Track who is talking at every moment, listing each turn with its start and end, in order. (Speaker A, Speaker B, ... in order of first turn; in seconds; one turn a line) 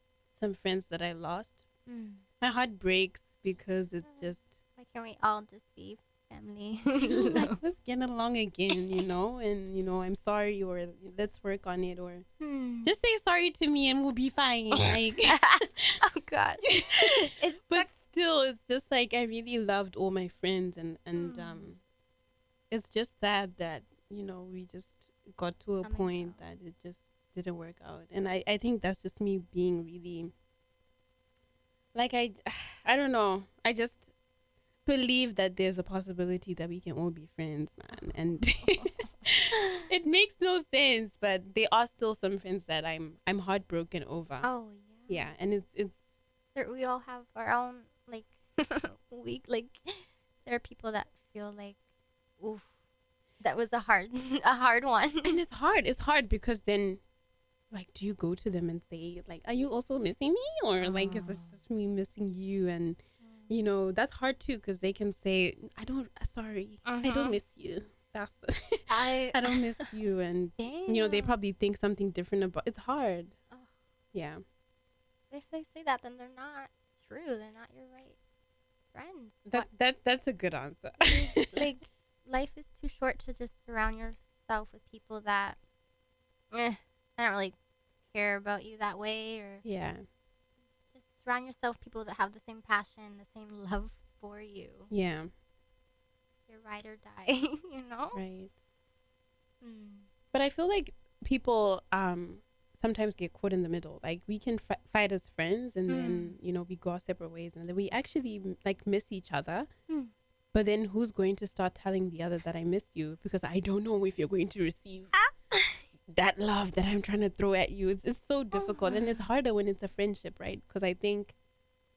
Speaker A: 0.3-1.6
Speaker B: 1.9-2.2
Speaker A: 2.4-4.5
Speaker B: 4.0-7.5
Speaker A: 7.0-12.2
Speaker B: 12.4-12.9
Speaker A: 12.8-15.4
Speaker B: 14.7-17.9
Speaker A: 16.6-21.8
Speaker B: 21.2-21.7
Speaker A: 22.7-30.3
Speaker B: 25.8-26.4
Speaker A: 31.9-34.1
Speaker A: 34.8-44.5
Speaker B: 37.9-39.8
Speaker B: 44.4-45.3
Speaker A: 45.1-46.0
Speaker B: 46.5-51.8
Speaker B: 52.4-52.7
Speaker B: 53.4-55.4
Speaker A: 55.2-57.0
Speaker A: 57.7-73.4
Speaker B: 60.8-61.6
Speaker B: 63.2-63.5
Speaker B: 66.8-67.4
Speaker B: 68.9-69.9
Speaker B: 70.6-71.3
Speaker A: 74.1-74.4
Speaker B: 75.3-78.2
Speaker B: 78.9-79.7
Speaker A: 79.5-81.7
Speaker B: 81.0-85.6
Speaker B: 86.5-87.5
Speaker B: 88.1-89.6
Speaker A: 89.6-90.0
Speaker B: 90.9-94.9
Speaker A: 94.9-95.3
Speaker B: 96.5-98.2
Speaker A: 98.1-98.5
Speaker B: 99.6-100.1
Speaker A: 100.3-109.7
Speaker B: 105.9-106.3
Speaker A: 110.5-115.2
Speaker B: 115.1-115.8
Speaker A: 116.1-121.3
Speaker B: 118.5-119.2